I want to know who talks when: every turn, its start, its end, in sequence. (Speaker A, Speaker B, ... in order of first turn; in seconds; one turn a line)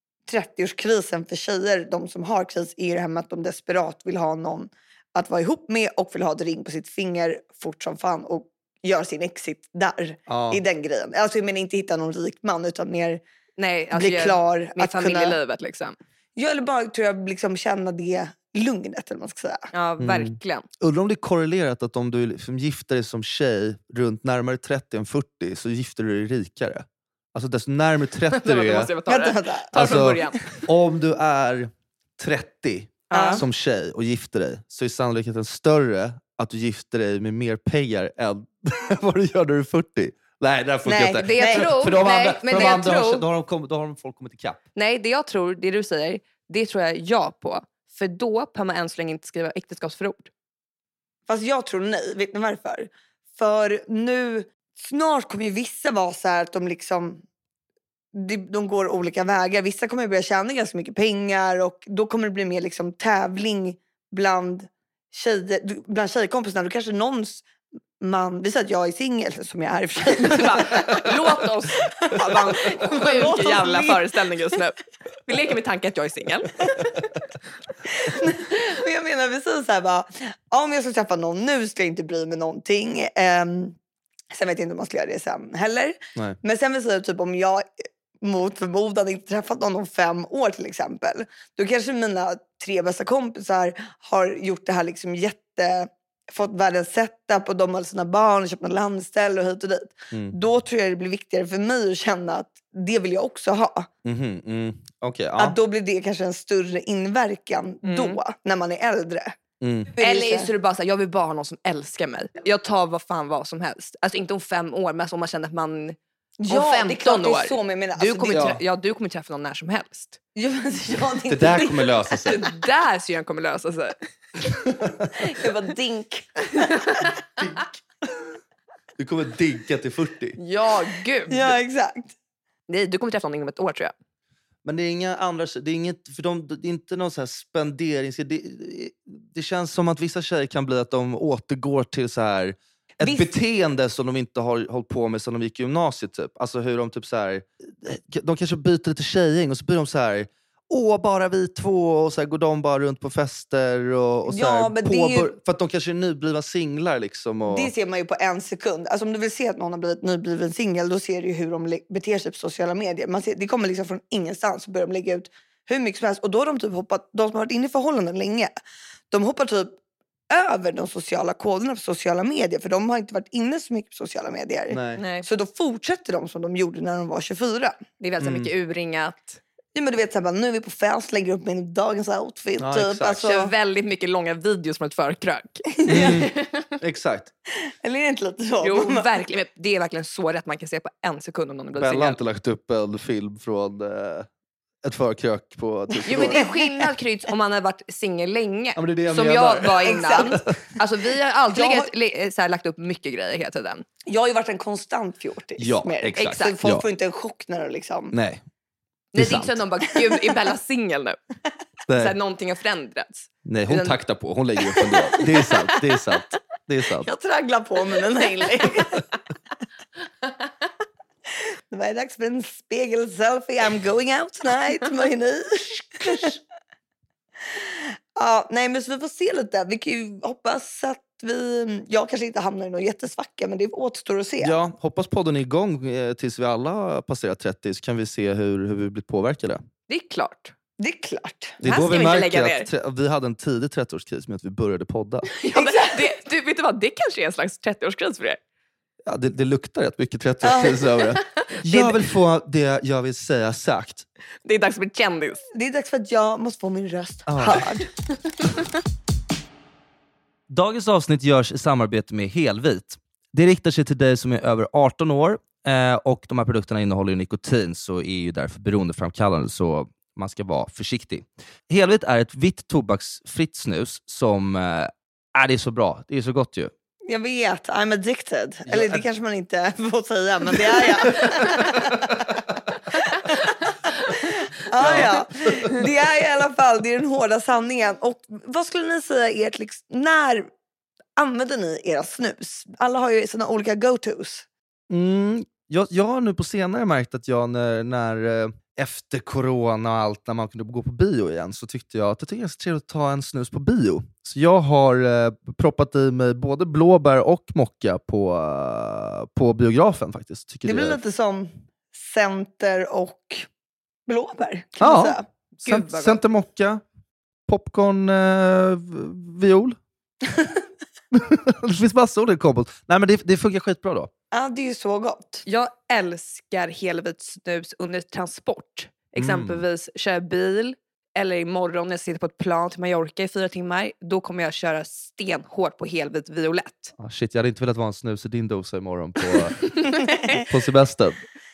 Speaker A: 0.3-13.2
Speaker B: 10.3-10.6
Speaker C: 13.6-16.0
Speaker A: 13.9-15.4
Speaker A: 16.4-19.7
Speaker C: 19.7-20.7
Speaker B: 20.0-28.9
Speaker C: 28.3-30.6
Speaker A: 29.1-30.2
Speaker B: 29.7-44.6
Speaker C: 33.1-33.4
Speaker A: 33.1-33.4
Speaker A: 40.9-41.8
Speaker C: 41.2-43.2
Speaker C: 44.8-50.3
Speaker A: 51.3-57.2
Speaker A: 58.1-67.4
Speaker A: 68.0-71.2
Speaker C: 70.1-76.9
Speaker A: 72.0-74.6
Speaker A: 77.9-83.8
Speaker A: 84.3-87.7
Speaker A: 88.2-103.9
Speaker B: 104.0-105.6
Speaker A: 105.4-109.4
Speaker C: 107.8-108.2
Speaker B: 109.6-109.9
Speaker A: 110.0-110.5
Speaker C: 110.0-116.0
Speaker A: 116.4-118.5
Speaker C: 116.5-120.2
Speaker B: 118.3-118.6
Speaker A: 120.4-121.9
Speaker B: 121.3-122.4
Speaker C: 122.2-124.0
Speaker A: 125.1-127.1
Speaker C: 126.6-127.1
Speaker B: 129.0-130.4
Speaker C: 130.4-131.5
Speaker A: 131.3-132.1
Speaker C: 132.7-133.9
Speaker B: 134.6-157.7
Speaker C: 143.0-143.3
Speaker A: 154.3-155.3
Speaker A: 157.5-168.5
Speaker A: 169.1-169.8
Speaker A: 170.3-177.8
Speaker B: 174.7-175.0
Speaker C: 175.0-175.3
Speaker C: 178.0-179.4
Speaker B: 178.2-178.5
Speaker A: 179.8-183.5
Speaker B: 182.6-183.2
Speaker C: 183.2-186.8
Speaker A: 185.8-186.2
Speaker B: 185.9-187.3
Speaker A: 187.6-189.1
Speaker C: 188.6-192.2
Speaker B: 191.8-194.3
Speaker B: 194.8-196.4
Speaker A: 196.0-196.9
Speaker C: 196.1-203.8
Speaker B: 198.8-200.5
Speaker A: 199.8-200.5
Speaker A: 201.5-201.9
Speaker A: 204.1-208.1
Speaker B: 205.6-206.9
Speaker C: 206.1-206.6
Speaker B: 208.1-208.4
Speaker C: 209.1-211.2
Speaker B: 209.1-209.6
Speaker B: 211.9-212.1
Speaker C: 211.9-214.0
Speaker B: 213.4-217.1
Speaker C: 214.8-215.8
Speaker A: 217.0-219.0
Speaker A: 221.7-226.4
Speaker A: 227.5-234.6
Speaker B: 234.4-239.6
Speaker C: 239.9-240.5
Speaker A: 240.8-241.6
Speaker B: 241.6-245.3
Speaker C: 241.6-242.7
Speaker C: 245.3-248.4
Speaker A: 245.5-246.1
Speaker B: 249.1-254.1
Speaker A: 250.4-250.9
Speaker C: 254.4-255.5
Speaker A: 255.5-257.9
Speaker B: 257.3-257.6
Speaker B: 260.5-276.7
Speaker A: 277.1-282.4
Speaker B: 278.7-279.1
Speaker B: 280.5-282.2
Speaker A: 282.9-290.5
Speaker C: 283.2-284.3
Speaker B: 284.8-285.9
Speaker A: 291.2-294.5
Speaker B: 294.9-311.0
Speaker A: 310.6-313.5
Speaker A: 314.1-315.3
Speaker B: 314.8-316.8
Speaker C: 315.6-316.2
Speaker B: 317.5-319.8
Speaker B: 321.1-324.1
Speaker A: 324.3-325.4
Speaker C: 325.4-336.9
Speaker B: 329.2-329.6
Speaker B: 337.0-339.8
Speaker C: 339.6-340.4
Speaker B: 340.4-341.2